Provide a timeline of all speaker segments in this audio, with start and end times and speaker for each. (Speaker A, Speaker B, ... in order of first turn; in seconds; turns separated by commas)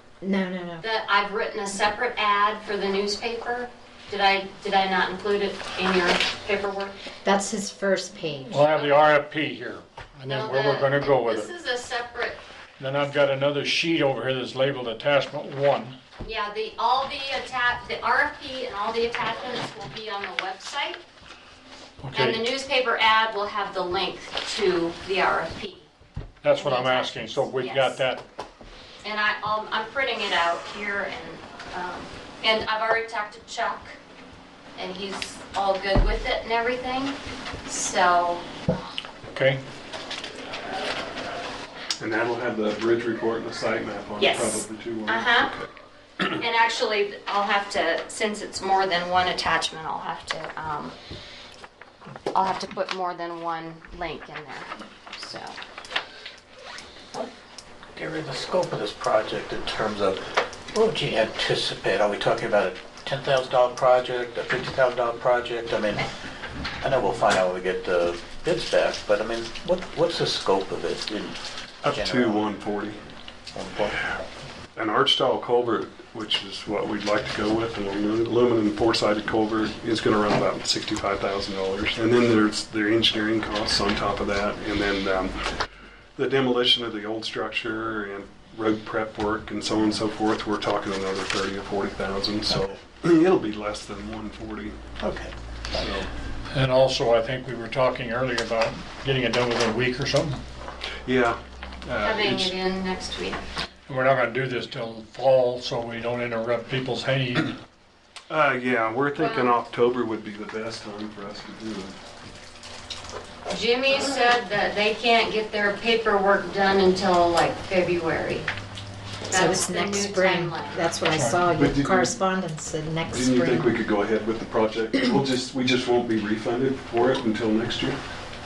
Speaker A: 0.2-0.8, Speaker B: 0.8-7.0, Speaker A: 7.2-8.6, Speaker C: 8.5-11.5, Speaker B: 8.6-9.1, Speaker B: 10.2-12.4, Speaker C: 12.8-16.0, Speaker B: 16.2-21.0, Speaker C: 22.0-22.4, Speaker B: 22.1-25.9, Speaker C: 26.4-28.2, Speaker B: 26.5-28.0, Speaker B: 29.0-34.0, Speaker B: 34.8-38.4, Speaker C: 39.3-39.6, Speaker D: 42.0-45.7, Speaker B: 44.2-45.5, Speaker B: 46.4-50.9, Speaker B: 52.3-55.5, Speaker E: 57.9-66.1, Speaker E: 66.8-72.5, Speaker D: 71.8-73.0, Speaker E: 73.5-74.2, Speaker D: 74.7-85.6, Speaker D: 86.2-94.8, Speaker E: 92.5-92.8, Speaker E: 95.0-96.0, Speaker D: 95.8-96.1, Speaker C: 96.5-100.4, Speaker D: 101.0-102.5, Speaker B: 102.0-103.4, Speaker C: 103.9-107.5, Speaker D: 108.3-111.9, Speaker B: 109.2-109.6, Speaker B: 113.5-118.5, Speaker B: 119.3-120.9, Speaker A: 119.3-123.7, Speaker C: 121.1-121.4, Speaker D: 121.5-122.1, Speaker D: 123.1-128.0